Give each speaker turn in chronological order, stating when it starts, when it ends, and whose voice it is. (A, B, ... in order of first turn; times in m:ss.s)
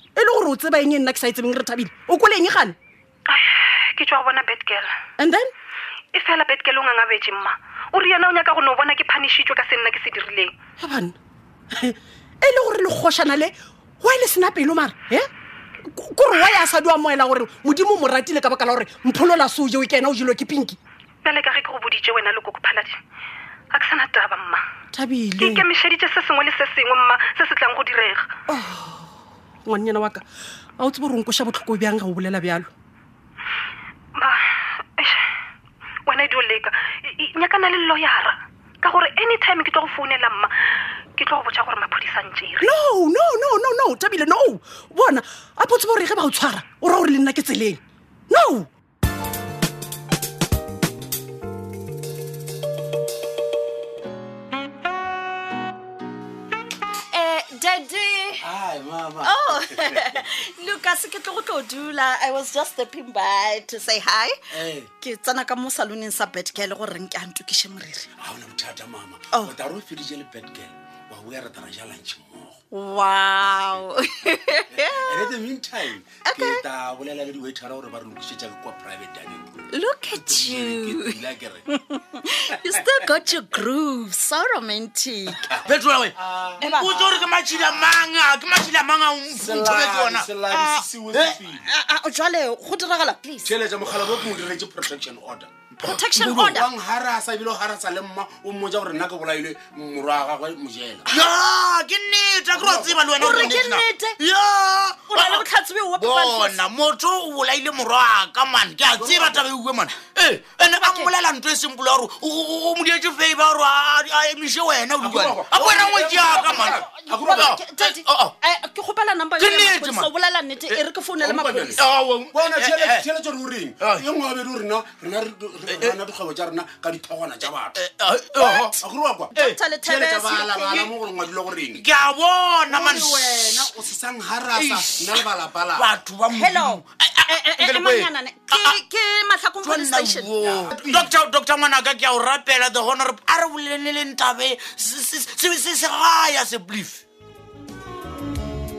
0:00.2-0:02.7 A
0:03.3-0:04.9 B
0:05.2-0:05.5 A
0:06.1-0:10.5 B
0:10.8-0:11.1 A
0:11.7-0:15.3 A
0:15.9-0:20.8 A
0:21.2-0:23.0 B
0:23.7-0:24.6 B
0:24.9-0:25.6 A
0:25.4-0:28.3 B
0:28.5-0:29.1 A
0:29.6-0:30.2 A
0:30.8-0:32.7 A
0:36.0-0:40.5 B
0:41.2-0:42.7 B
0:42.6-0:48.7 A
0:57.1-0:58.4 C
0:58.4-1:00.0 D
0:59.2-1:04.4 C
1:04.5-1:04.9 D
1:05.0-1:08.1 C
1:08.2-1:12.5 D
1:12.7-1:15.4 C
1:14.8-1:19.6 D
1:16.2-1:16.6 C
1:19.7-1:21.2 C
1:20.1-1:21.6 D
1:21.7-1:25.4 C
1:25.5-1:26.8 D
1:25.6-1:30.3 E
1:26.6-1:27.3 C
1:29.4-1:31.6 D
1:30.5-1:30.8 C
1:31.1-1:31.4 E
1:31.6-1:33.5 C
1:33.4-1:35.5 D
1:35.8-1:36.7 C
1:36.0-1:41.2 D
1:41.1-1:58.3 E
1:42.5-1:43.0 D
1:43.2-1:44.2 C
1:45.1-1:46.6 C
1:48.9-1:49.4 D
1:50.8-1:51.1 C
1:55.0-1:57.6 D
1:56.3-2:01.8 C
1:59.4-2:00.1 E
2:01.2-2:01.8 D
2:01.8-2:03.1 E
2:02.3-2:07.8 D
2:03.8-2:04.1 E
2:05.7-2:06.0 E
2:07.7-2:08.7 E
2:08.4-2:08.8 C
2:08.8-2:11.8 D
2:09.3-2:10.8 C
2:11.7-2:13.7 E
2:12.7-2:15.9 D
2:14.5-2:18.8 E
2:16.3-2:20.3 C
2:19.6-2:27.0 E
2:20.4-2:21.1 D